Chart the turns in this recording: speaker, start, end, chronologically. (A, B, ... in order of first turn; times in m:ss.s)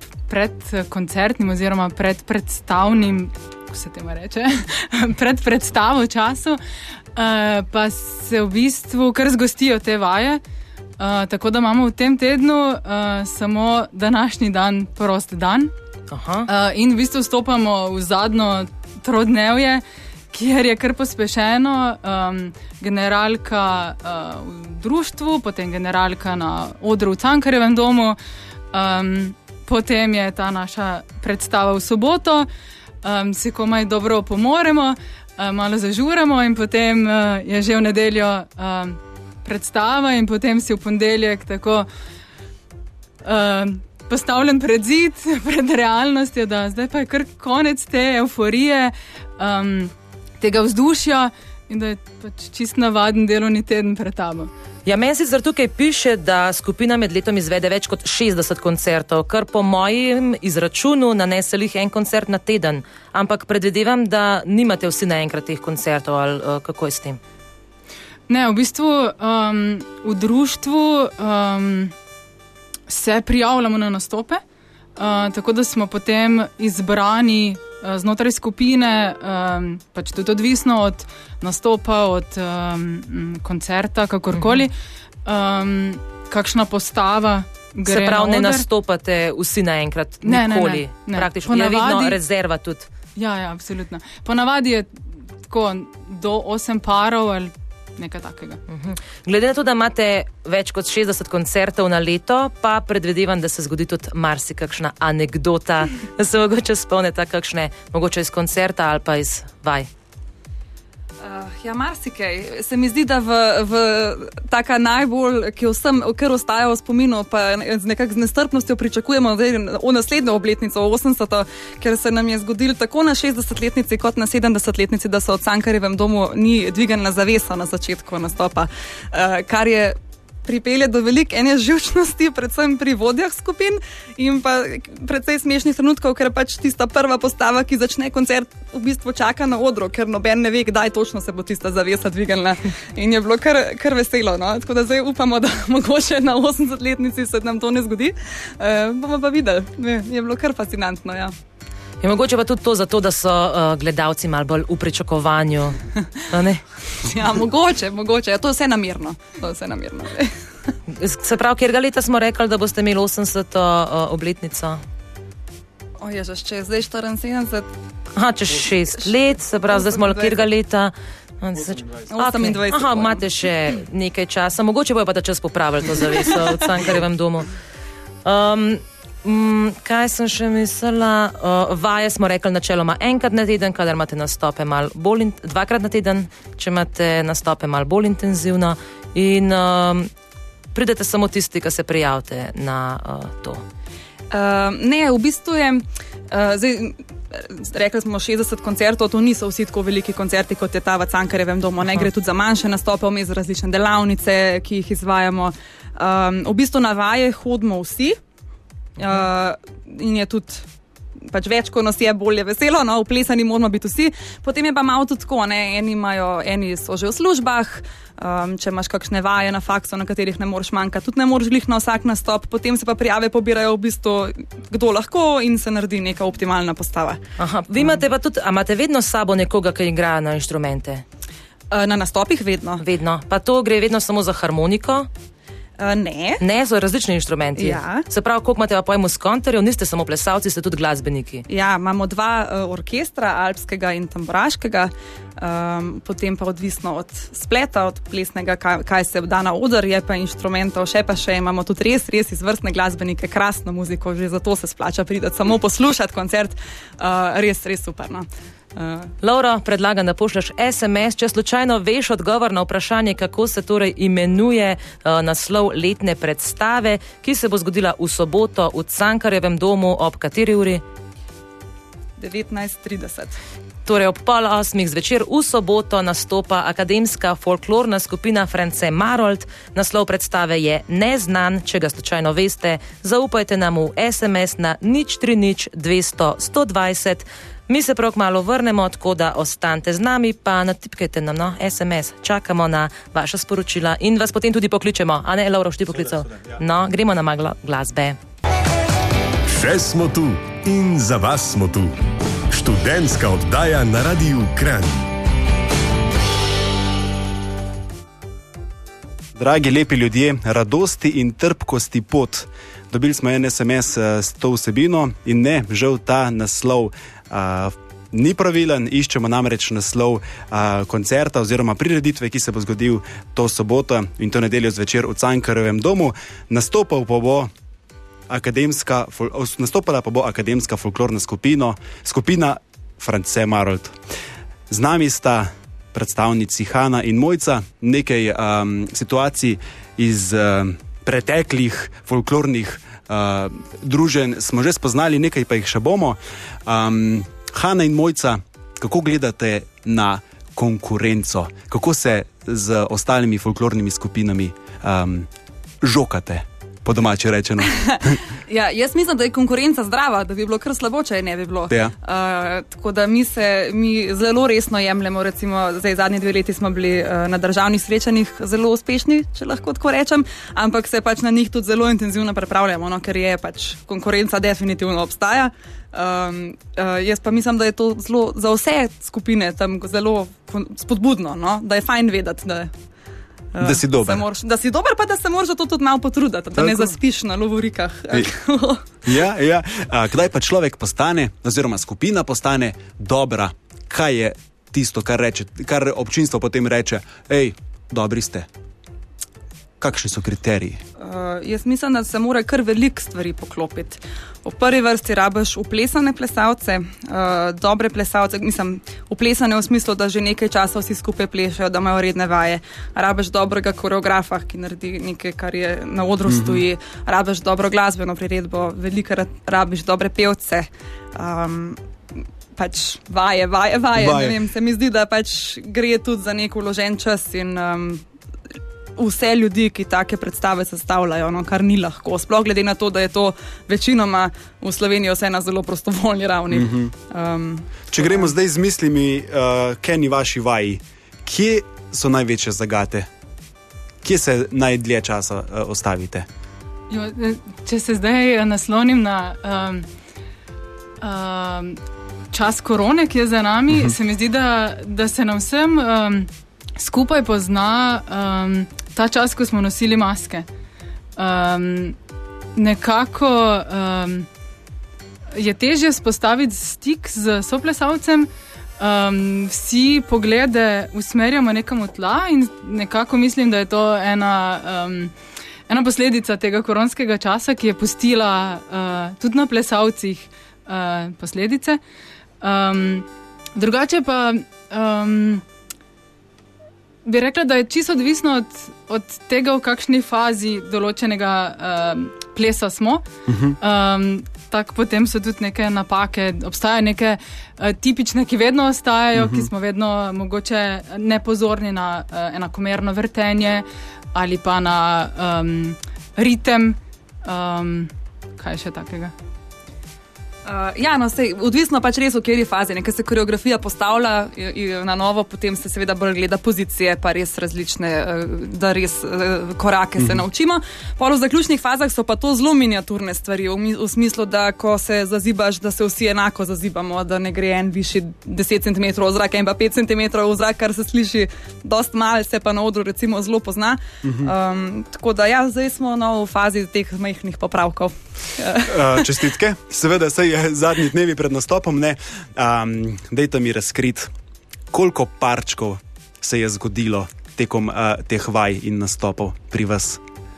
0:00.3-0:06.6 A
0:07.2-0:10.4 A
0:11.0-0:15.7 A
0:16.1-0:16.5 B
0:16.5-0:28.2 A
0:28.7-0:32.5 A
0:33.0-0:41.9 A
0:43.2-0:54.5 A
0:54.9-1:07.2 B
1:08.3-1:11.9 A
1:12.9-1:14.4 A
1:15.0-1:28.7 A
1:27.9-1:32.9 B
1:30.2-1:32.2 A
1:33.2-1:38.6 A
1:38.7-1:49.9 B
1:51.2-2:31.3 C
2:32.0-2:36.6 B
2:37.0-2:40.3 C
2:40.9-2:44.8 B
2:46.0-2:47.7 C
2:48.2-2:57.5 B
2:49.7-2:50.4 C
2:52.1-2:53.3 C
2:58.2-3:10.1 B
3:10.7-3:13.6 B
3:14.3-3:28.2 C
3:29.0-3:30.6 C
3:31.2-3:47.2 C
3:47.4-3:51.0 B
3:51.7-3:52.8 C
3:52.8-3:55.1 B
3:55.8-3:56.4 C
3:56.4-4:01.5 B
3:57.6-3:58.0 C
4:01.5-4:19.1 C
4:19.2-4:30.8 B
4:32.2-4:33.4 C
4:33.9-4:58.2 B
4:59.5-5:02.0 D
5:02.5-5:05.1 D
5:09.4-5:27.5 E
5:28.3-5:34.0 E
5:34.7-5:55.3 E
5:55.8-5:58.2 E
5:57.9-6:22.7 C
6:23.5-6:28.8 C
6:23.6-6:24.2 E
6:26.6-6:27.0 E
6:29.0-6:38.5 E
6:39.8-6:40.8 E
6:41.0-7:08.0 C
6:56.3-6:56.6 E
7:04.0-7:04.4 E
7:09.0-7:18.3 C
7:16.5-7:16.9 E
7:17.9-7:23.1 E
7:24.0-7:26.3 E
7:26.9-7:29.9 A
7:31.0-7:31.8 A
7:32.3-7:40.5 A
7:41.2-7:42.0 A
7:42.6-7:44.3 A
7:45.3-7:55.1 A
7:55.7-8:01.8 A
8:02.4-8:05.4 A
8:07.0-8:13.1 A
8:13.3-8:13.6 E
8:13.6-8:29.1 A
8:19.2-8:19.5 E
8:30.4-8:59.2 C
8:40.0-8:40.2 E
8:54.0-8:54.3 E
8:58.6-9:04.1 E
9:04.7-9:10.0 E